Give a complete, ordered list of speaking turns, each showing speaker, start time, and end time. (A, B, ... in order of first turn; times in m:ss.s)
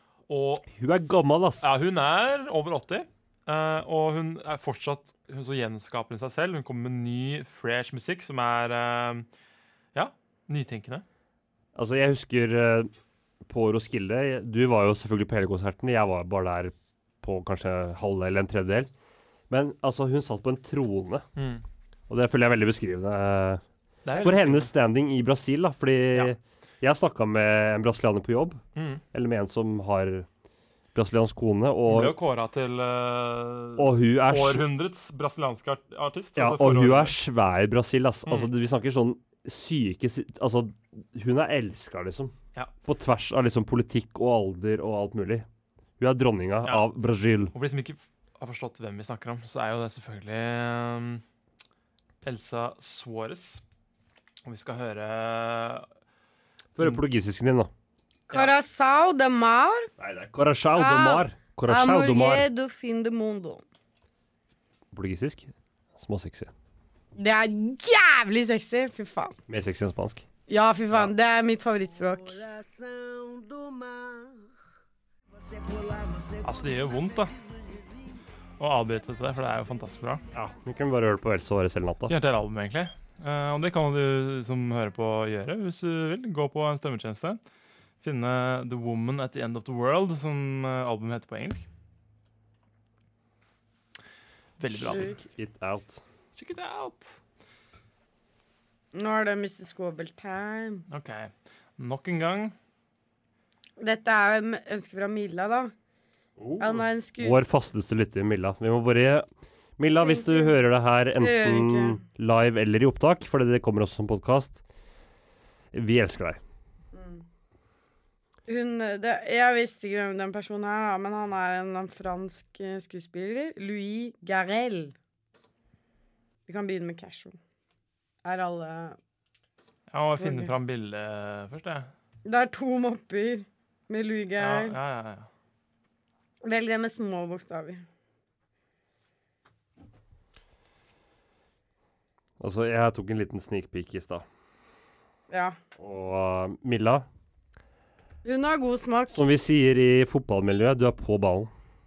0:00.3-0:00.7 A
0:00.7-0:01.7 B
0:01.6-0:09.3 A
0:09.9-0:11.0 A
0:11.8-0:12.9 B
0:13.5-0:18.9 B
0:19.5-0:21.2 B
0:21.4-0:21.6 A
0:22.1-0:23.6 B
0:24.0-0:24.7 A
0:24.2-0:28.6 B
0:28.8-0:29.0 A
0:29.1-0:30.3 B
0:31.0-0:32.2 B
0:31.9-0:37.2 A
0:33.8-0:34.7 B
0:36.4-0:45.5 B
0:46.0-0:47.5 B
0:47.5-0:51.2 A
0:52.2-0:53.6 A
0:54.4-0:55.9 A
0:56.8-0:57.7 B
0:58.3-0:58.6 A
0:58.3-0:59.9 C
1:00.0-1:02.5 B
1:00.8-1:03.6 C
1:04.9-1:06.5 B
1:07.2-1:09.4 C
1:09.5-1:10.2 B
1:10.5-1:12.5 C
1:16.4-1:17.3 A
1:18.6-1:20.2 A
1:20.3-1:22.1 B
1:22.1-1:27.4 A
1:28.0-1:31.7 A
1:34.6-1:35.1 A
1:34.7-1:36.0 B
1:36.4-1:37.2 A
1:38.9-1:40.8 C
1:40.9-1:42.6 A
1:43.8-1:45.7 C
1:46.4-1:49.3 B
1:46.6-1:47.5 C
1:49.8-1:54.6 B
1:50.0-1:50.6 C
1:51.2-1:52.0 C
1:55.7-1:56.4 B
1:56.9-1:57.2 C
1:58.5-2:04.9 C
2:06.5-2:07.4 C
2:08.2-2:09.0 C
2:09.9-2:11.9 A
2:10.2-2:10.5 C
2:12.2-2:14.8 C
2:14.4-2:15.3 A
2:16.4-2:17.8 C
2:22.4-2:24.2 B
2:25.3-2:25.6 C
2:25.8-2:27.1 B
2:28.2-2:29.2 C
2:29.1-2:31.5 B